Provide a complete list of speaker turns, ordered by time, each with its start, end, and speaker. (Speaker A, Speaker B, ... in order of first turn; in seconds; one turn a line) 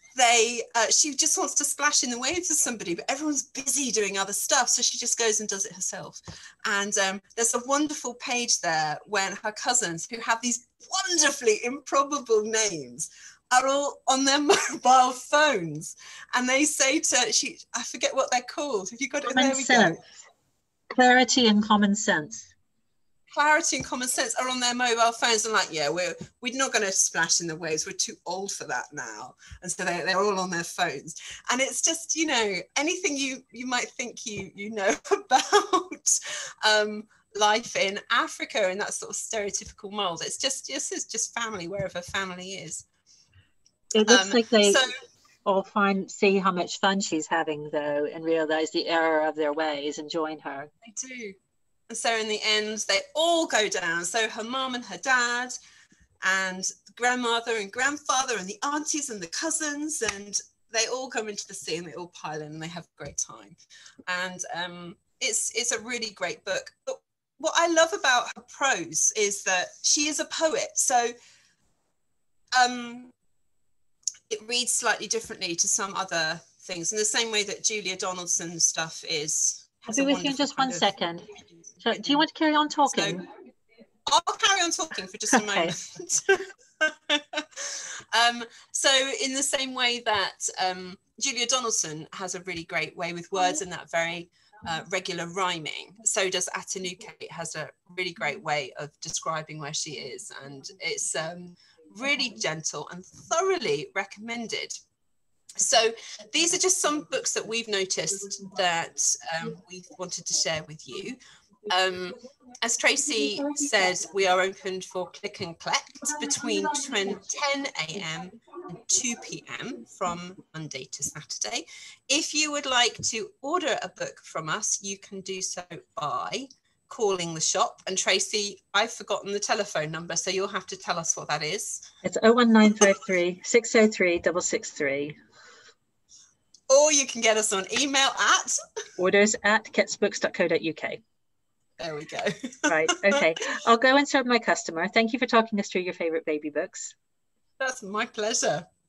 Speaker A: 0.1-20.0
Speaker B: 19.3-20.0
Speaker B: 20.9-22.5
Speaker A: 23.3-42.9
Speaker B: 43.9-44.9
Speaker A: 44.1-44.9
Speaker B: 45.4-50.7
Speaker A: 50.8-51.4
Speaker A: 51.9-55.5
Speaker A: 56.2-71.1
Speaker A: 72.6-73.1
Speaker A: 74.3-80.9
Speaker B: 79.9-81.3
Speaker B: 81.8-83.2
Speaker A: 81.9-82.2
Speaker A: 82.9-83.2
Speaker A: 84.1-104.8
Speaker B: 85.3-85.7
Speaker A: 105.6-131.8
Speaker B: 132.0-135.1
Speaker A: 136.7-138.6
Speaker B: 139.0-141.0
Speaker A: 141.8-143.2
Speaker B: 142.7-146.9
Speaker A: 147.6-148.7